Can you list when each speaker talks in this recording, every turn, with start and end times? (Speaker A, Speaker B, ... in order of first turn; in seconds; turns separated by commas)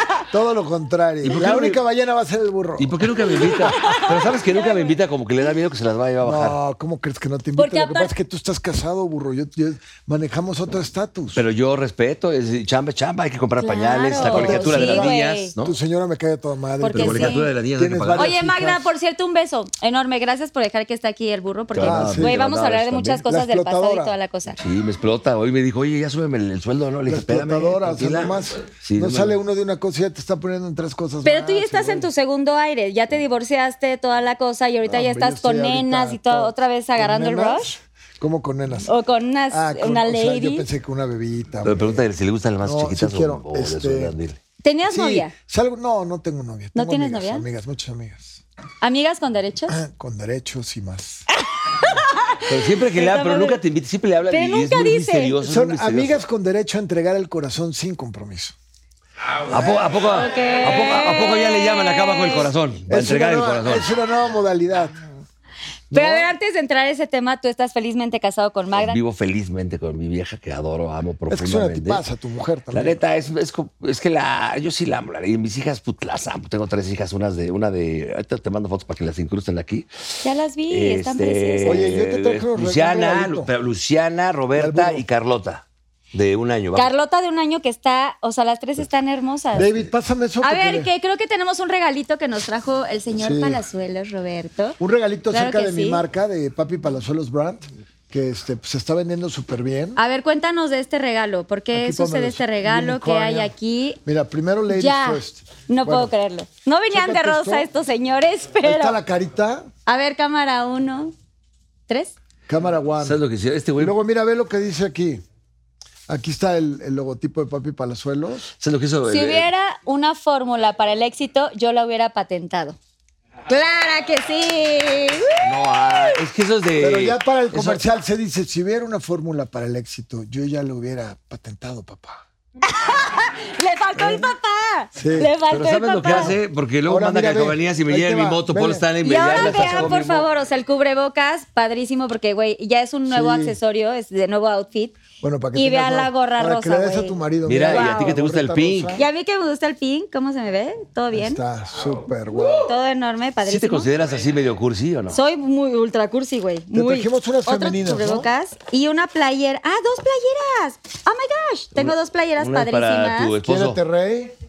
Speaker A: 0.3-3.1, Speaker B: 1.2-1.8, Speaker B: 2.8-6.6, Speaker C: 3.5-4.7, Speaker A: 6.2-11.4, Speaker C: 7.5-8.1, Speaker B: 11.3-15.7, Speaker C: 13.6-15.5, Speaker A: 14.1-18.9, Speaker C: 16.8-17.5, Speaker B: 16.9-18.3, Speaker C: 18.2-24.6, Speaker B: 21.7-23.2, Speaker A: 21.8-22.4, Speaker A: 23.2-24.1, Speaker B: 24.6-29.4, Speaker A: 27.1-32.1, Speaker C: 31.2-37.7, Speaker A: 34.8-38.9, Speaker C: 38.9-40.6, Speaker A: 39.5-42.0, Speaker B: 41.6-44.4, Speaker A: 42.6-44.1, Speaker C: 44.6-45.3, Speaker A: 44.9-48.4, Speaker C: 46.7-47.5, Speaker C: 48.8-49.8, Speaker A: 49.7-51.2, Speaker C: 51.6-53.6, Speaker B: 52.5-56.2, Speaker C: 54.3-55.3, Speaker A: 55.4-58.5, Speaker B: 59.5-63.9, Speaker A: 59.5-59.9, Speaker C: 60.0-62.5, Speaker A: 62.9-65.1, Speaker C: 65.9-69.0, Speaker A: 65.9-66.3, Speaker B: 68.7-72.0, Speaker A: 71.3-73.0, Speaker B: 72.7-86.9, Speaker C: 80.2-81.8, Speaker A: 81.6-83.5, Speaker A: 84.5-85.0, Speaker C: 86.7-89.8, Speaker A: 89.5-90.9, Speaker C: 90.4-94.8, Speaker A: 93.2-93.6, Speaker A: 94.8-100.0, Speaker C: 95.3-96.0, Speaker C: 100.0-104.0, Speaker A: 101.7-103.5, Speaker A: 104.0-106.1, Speaker C: 104.7-109.0, Speaker A: 106.9-107.7, Speaker A: 108.6-109.7, Speaker C: 109.9-111.1, Speaker C: 111.9-112.1, Speaker A: 112.5-113.2, Speaker B: 113.0-113.9, Speaker A: 113.8-115.2, Speaker A: 116.1-118.5, Speaker B: 118.6-119.5, Speaker C: 119.1-122.8, Speaker C: 123.5-126.2, Speaker B: 125.4-127.8, Speaker A: 126.8-132.2, Speaker C: 132.6-136.4, Speaker A: 134.0-134.3, Speaker A: 134.9-135.3, Speaker B: 135.5-140.2, Speaker A: 136.1-140.1, Speaker C: 139.0-145.0, Speaker A: 143.1-143.6, Speaker A: 145.2-149.0, Speaker C: 145.5-148.1, Speaker B: 147.4-149.0, Speaker C: 148.9-151.4, Speaker A: 151.1-152.7, Speaker C: 152.5-153.9, Speaker B: 153.4-155.2, Speaker C: 155.1-163.3, Speaker A: 156.7-158.3, Speaker B: 161.8-163.8, Speaker A: 163.4-164.3